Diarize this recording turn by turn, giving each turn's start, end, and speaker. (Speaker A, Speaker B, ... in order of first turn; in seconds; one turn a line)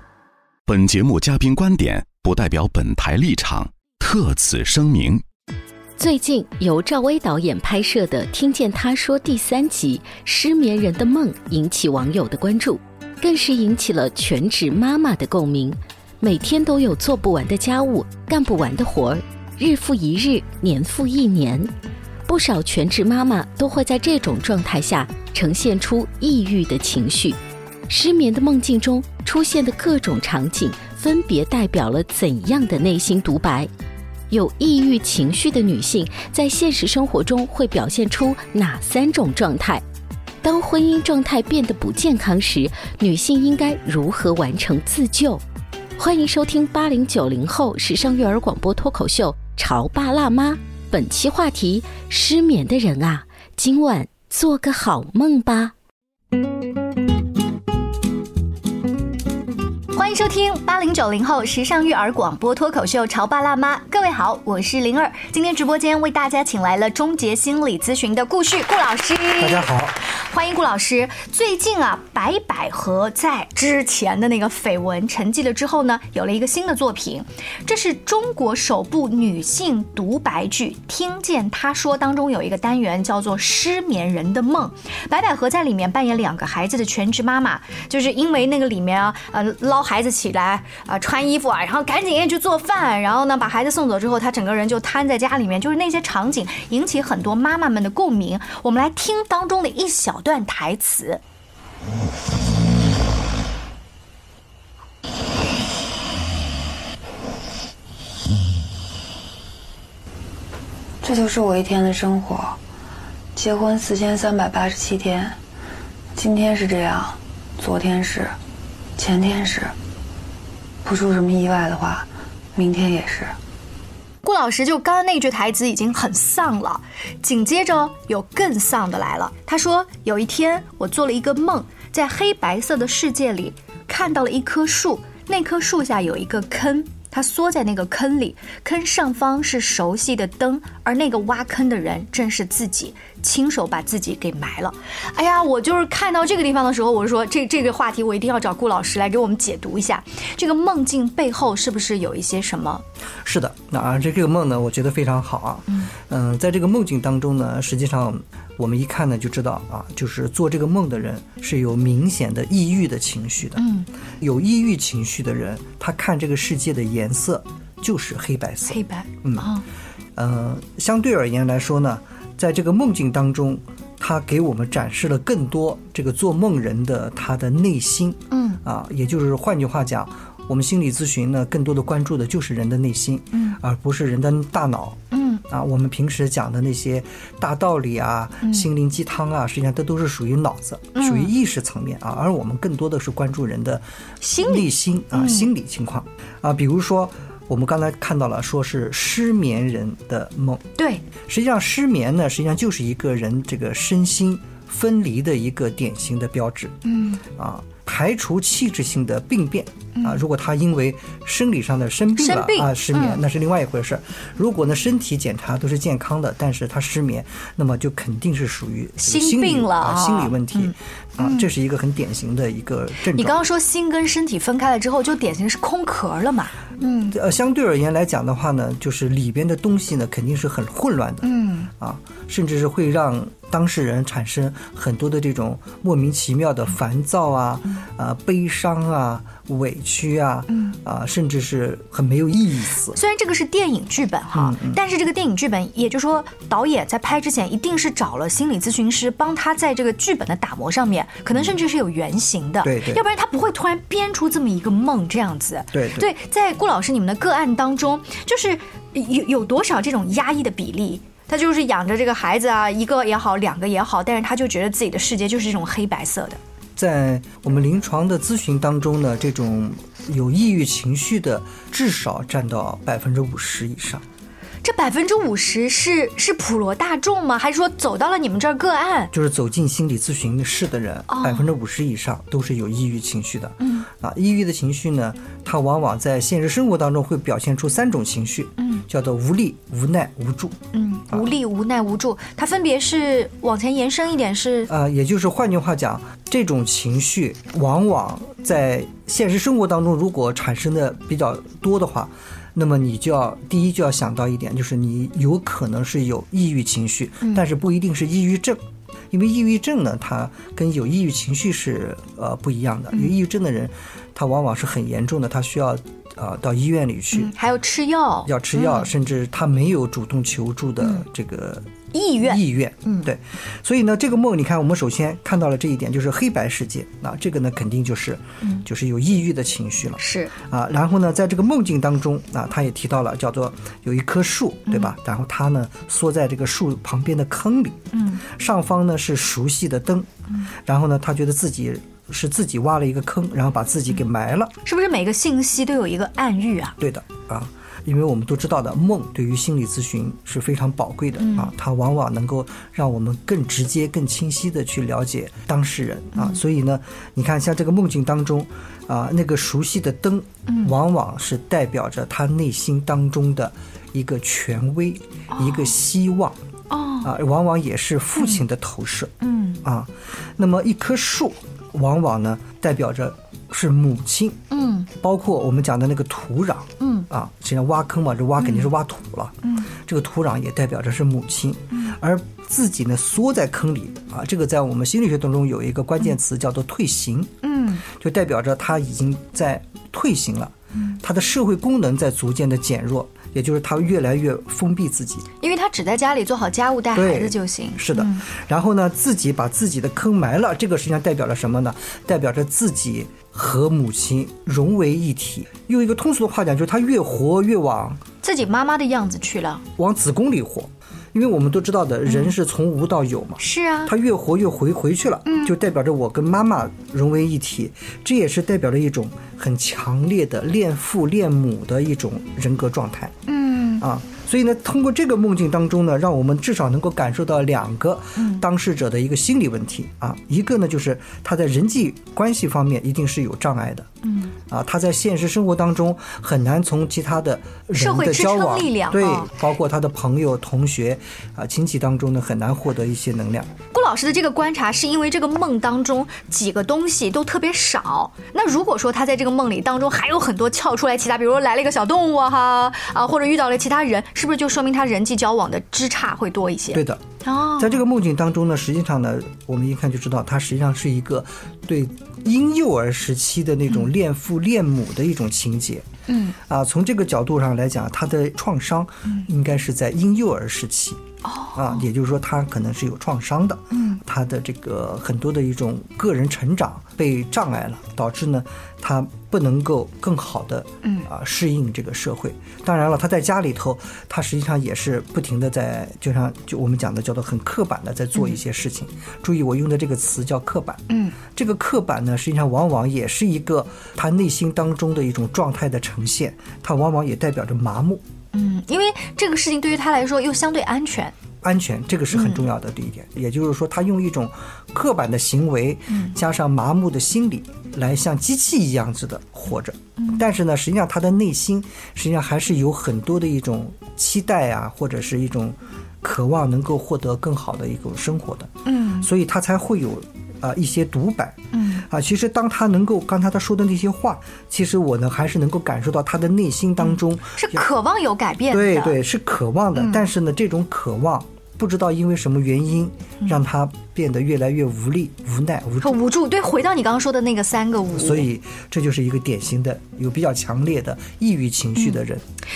Speaker A: 0.7-5.2
Speaker B: 6.0-21.7
Speaker B: 22.3-27.4
Speaker B: 27.9-33.7
Speaker B: 34.3-39.8
Speaker B: 40.4-45.4
Speaker B: 46.0-55.7
Speaker C: 59.9-101.2
Speaker D: 69.4-70.0
Speaker E: 111.0-112.6
Speaker E: 113.3-115.4
Speaker E: 116.1-118.3
Speaker E: 119.0-119.7
Speaker E: 120.8-123.4
Speaker C: 124.2-152.8
Speaker D: 153.2-163.6
Speaker C: 163.6-163.9
Speaker D: 164.2-169.5
Speaker C: 168.7-169.6
Speaker D: 170.2-193.8
Speaker C: 178.3-178.6
Speaker C: 183.3-183.6
Speaker C: 185.1-185.4
Speaker C: 188.4-188.7
Speaker C: 190.9-191.3
Speaker C: 194.2-195.5
Speaker D: 194.3-223.4
Speaker C: 200.8-201.0
Speaker C: 206.8-207.2
Speaker C: 212.2-213.2
Speaker C: 219.0-221.5
Speaker C: 223.1-227.2
Speaker D: 227.1-243.0
Speaker C: 231.2-231.7
Speaker C: 240.5-240.8
Speaker C: 242.9-266.4
Speaker D: 244.3-244.8
Speaker D: 252.6-253.0
Speaker D: 255.7-256.1
Speaker D: 266.8-274.0
Speaker C: 274.6-279.1
Speaker D: 279.1-290.6
Speaker C: 281.1-281.5
Speaker C: 283.6-283.9
Speaker C: 288.6-288.8
Speaker C: 290.7-294.7
Speaker D: 294.7-317.3
Speaker C: 317.1-318.9
Speaker D: 318.2-340.1
Speaker C: 321.9-323.1
Speaker C: 330.0-330.3
Speaker C: 337.9-338.2
Speaker D: 340.6-344.5
Speaker C: 344.6-346.8
Speaker D: 346.8-366.4
Speaker C: 351.2-351.5
Speaker C: 360.5-360.7
Speaker C: 365.3-365.7
Speaker C: 366.7-367.1
Speaker D: 367.0-395.3
Speaker C: 369.2-369.6
Speaker C: 374.5-374.9
Speaker C: 376.8-377.1
Speaker C: 378.4-378.7
Speaker C: 379.4-379.7
Speaker C: 381.7-382.0
Speaker C: 387.4-387.8
Speaker C: 395.4-398.2
Speaker D: 396.9-408.0
Speaker C: 408.2-409.6
Speaker D: 409.8-423.2
Speaker C: 412.1-412.3
Speaker C: 413.4-413.9
Speaker C: 415.2-415.5
Speaker C: 423.3-423.8
Speaker D: 423.8-433.9
Speaker C: 428.1-428.4
Speaker C: 434.0-434.4
Speaker D: 434.5-443.5
Speaker C: 437.8-439.3
Speaker C: 443.7-457.8
Speaker D: 456.7-465.9
Speaker C: 466.1-466.4
Speaker D: 466.4-471.0
Speaker C: 471.2-471.8
Speaker D: 471.5-498.0
Speaker C: 473.7-474.0
Speaker C: 490.9-491.1
Speaker C: 498.3-501.1
Speaker D: 501.4-527.6
Speaker C: 502.1-502.4
Speaker C: 505.9-506.1
Speaker C: 510.0-510.2
Speaker C: 518.6-519.1
Speaker C: 521.5-521.9
Speaker C: 526.8-529.0
Speaker D: 528.5-536.0
Speaker C: 529.8-530.0
Speaker C: 535.8-538.3
Speaker D: 537.9-542.2